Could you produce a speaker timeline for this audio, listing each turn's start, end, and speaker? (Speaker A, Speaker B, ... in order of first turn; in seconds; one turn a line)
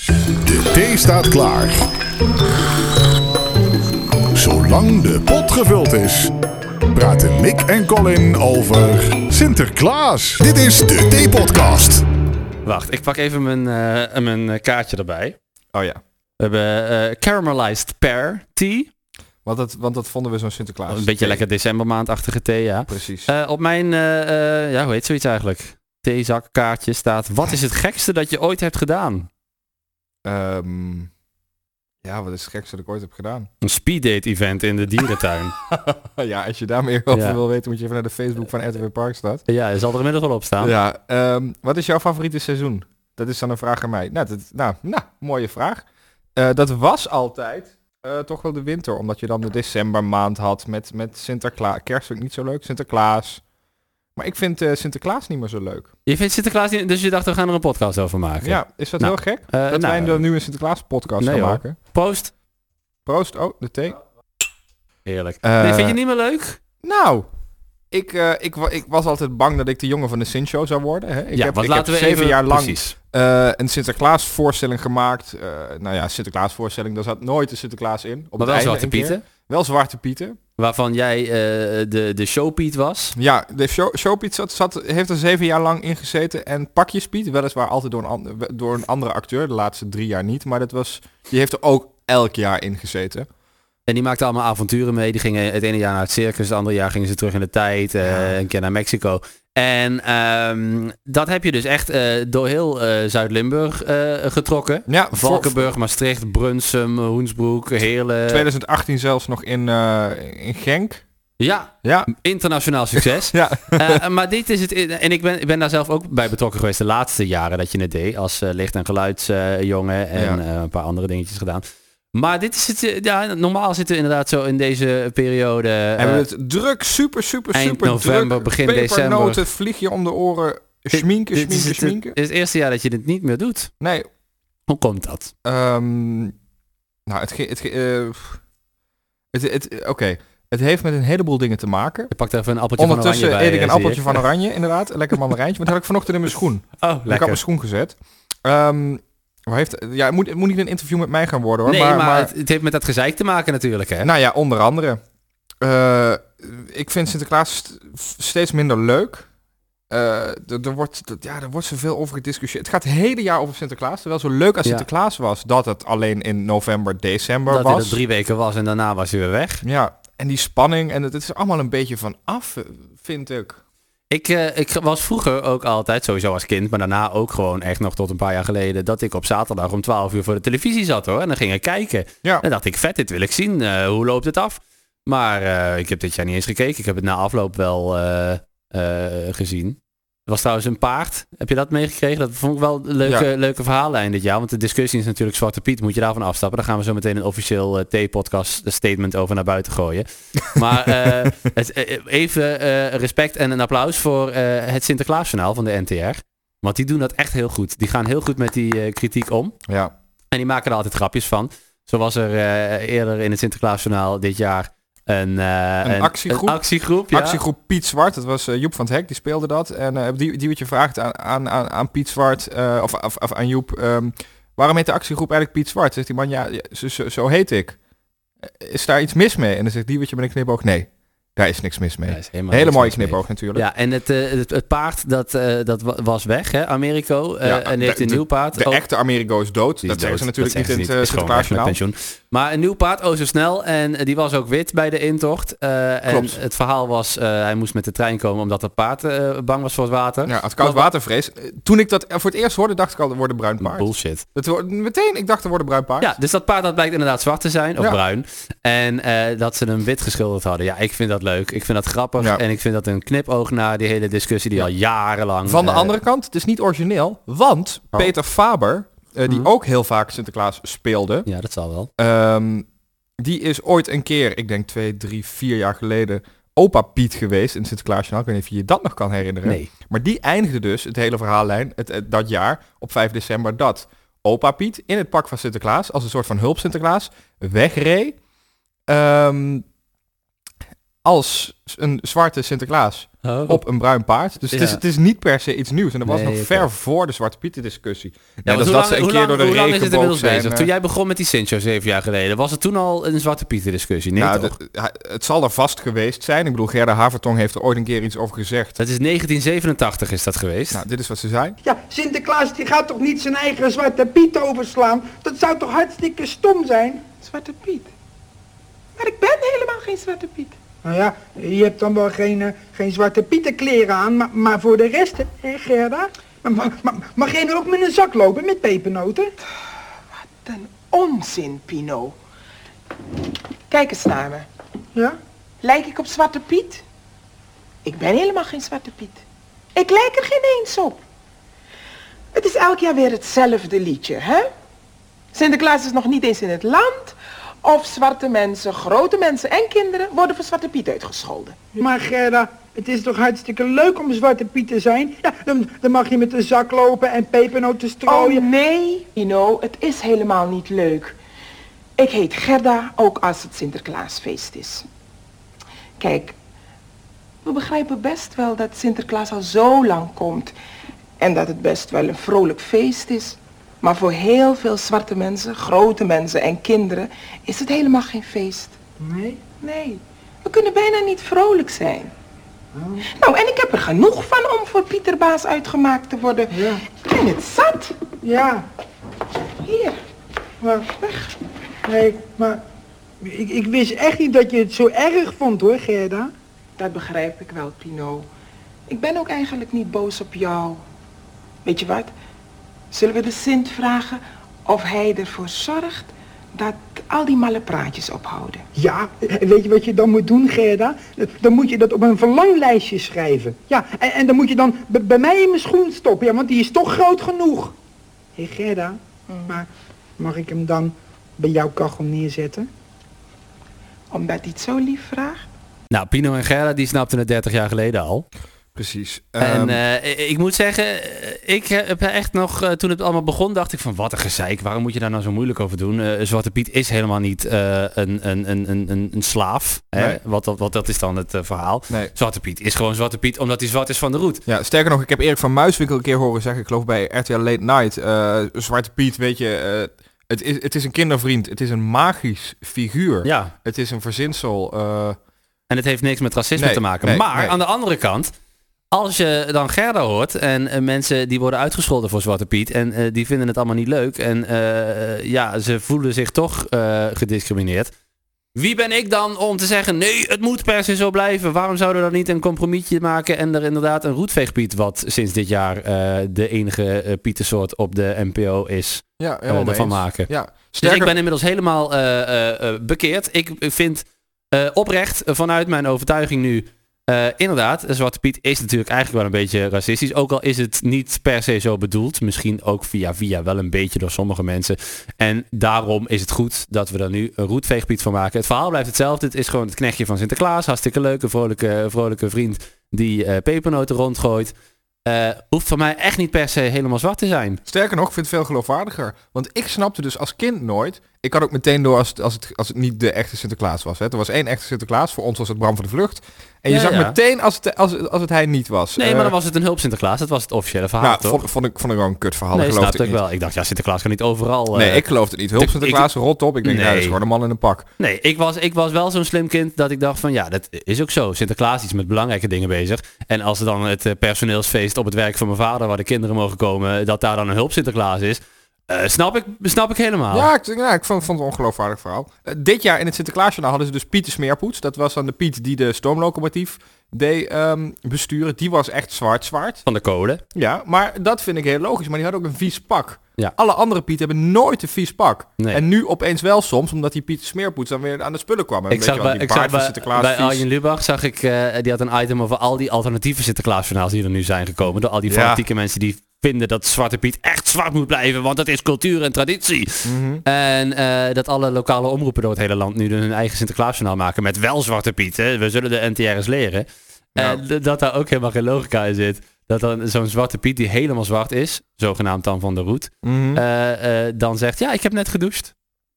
Speaker A: 0.5-1.8
Speaker A: 4.3-6.3
Speaker A: 6.9-12.1
Speaker B: 12.7-15.4
Speaker C: 15.7-16.0
Speaker B: 16.4-18.9
Speaker C: 19.4-21.4
Speaker B: 20.9-29.3
Speaker C: 22.9-23.3
Speaker C: 30.2-31.1
Speaker C: 32.0-33.5
Speaker B: 33.6-35.5
Speaker C: 35.7-39.4
Speaker B: 37.1-37.4
Speaker B: 39.5-40.8
Speaker C: 40.6-53.4
Speaker C: 54.2-55.9
Speaker B: 56.1-60.3
Speaker C: 58.4-61.8
Speaker B: 61.2-62.3
Speaker C: 63.1-64.0
Speaker B: 65.0-66.6
Speaker C: 65.4-66.0
Speaker C: 66.8-67.3
Speaker C: 67.9-80.4
Speaker B: 71.3-72.9
Speaker B: 78.4-79.2
Speaker B: 80.6-83.2
Speaker C: 83.2-93.3
Speaker B: 93.9-108.5
Speaker C: 98.0-98.4
Speaker C: 104.9-105.6
Speaker C: 108.3-111.0
Speaker B: 111.4-126.3
Speaker C: 111.8-112.1
Speaker C: 113.0-114.0
Speaker C: 120.2-120.4
Speaker C: 126.0-132.2
Speaker B: 127.5-129.4
Speaker B: 130.9-133.7
Speaker C: 133.8-134.1
Speaker B: 134.7-135.3
Speaker C: 135.4-136.3
Speaker C: 137.1-138.4
Speaker C: 139.3-142.1
Speaker B: 142.1-144.2
Speaker C: 142.8-152.3
Speaker B: 146.8-147.4
Speaker B: 151.7-154.1
Speaker C: 154.0-155.0
Speaker C: 155.6-159.3
Speaker C: 159.9-168.0
Speaker B: 167.5-169.6
Speaker C: 169.6-173.6
Speaker B: 174.1-209.6
Speaker C: 209.7-209.9
Speaker B: 210.3-217.4
Speaker C: 215.8-227.8
Speaker C: 228.4-233.7
Speaker B: 232.1-238.8
Speaker C: 237.4-241.8
Speaker B: 239.8-250.9
Speaker C: 246.1-246.4
Speaker C: 250.3-256.2
Speaker B: 253.6-254.2
Speaker B: 256.0-265.9
Speaker C: 265.4-271.3
Speaker B: 271.3-271.9
Speaker C: 272.0-272.7
Speaker C: 273.2-288.2
Speaker B: 279.4-279.7
Speaker C: 288.9-289.7
Speaker C: 291.0-300.7
Speaker B: 293.2-293.6
Speaker B: 294.5-294.8
Speaker B: 296.1-296.7
Speaker B: 298.5-304.6
Speaker C: 304.2-308.8
Speaker B: 308.8-310.8
Speaker C: 310.7-311.6
Speaker D: 311.6-317.0
Speaker E: 317.2-317.9
Speaker E: 319.0-320.6
Speaker D: 320.8-329.3
Speaker E: 330.1-332.2
Speaker E: 333.7-334.5
Speaker E: 335.6-336.8
Speaker E: 337.9-339.2
Speaker E: 339.8-341.0
Speaker E: 342.3-344.5
Speaker E: 345.3-351.8
Speaker D: 351.8-358.4
Speaker E: 358.1-361.2
Speaker E: 362.0-364.9
Speaker E: 366.0-366.4
Speaker E: 367.4-370.5
Speaker E: 371.2-378.8
Speaker D: 379.0-379.4
Speaker E: 379.6-382.1
Speaker D: 382.8-383.1
Speaker E: 383.1-388.0
Speaker D: 386.5-386.8
Speaker D: 388.2-388.6
Speaker E: 389.6-390.0
Speaker D: 390.6-390.9
Speaker E: 391.0-391.3
Speaker D: 391.9-392.6
Speaker D: 393.2-396.3
Speaker E: 396.8-398.3
Speaker E: 398.9-400.8
Speaker E: 401.6-402.1
Speaker E: 402.9-408.6
Speaker D: 408.8-417.8
Speaker D: 418.4-419.7
Speaker E: 419.3-419.6
Speaker D: 420.2-422.7
Speaker E: 424.1-425.5
Speaker B: 425.9-428.2
Speaker C: 428.8-429.8
Speaker B: 429.4-444.4
Speaker C: 444.5-455.2
Speaker B: 453.2-453.5
Speaker B: 455.7-458.3
Speaker C: 456.6-457.6
Speaker B: 458.9-467.9
Speaker B: 468.6-480.3
Speaker C: 479.2-481.2
Speaker B: 480.8-504.5
Speaker B: 505.1-507.6
Speaker C: 507.7-519.4
Speaker B: 516.7-517.2
Speaker B: 519.0-521.5
Speaker C: 521.0-523.2
Speaker B: 522.5-525.0
Speaker C: 524.7-527.9
Speaker B: 525.6-526.1
Speaker B: 526.6-527.2
Speaker B: 528.0-540.5
Speaker C: 540.3-549.8
Speaker B: 549.9-550.4
Speaker C: 550.5-560.6
Speaker B: 558.9-585.7
Speaker C: 565.3-565.6
Speaker C: 570.0-570.4
Speaker C: 577.4-577.6
Speaker C: 583.2-583.6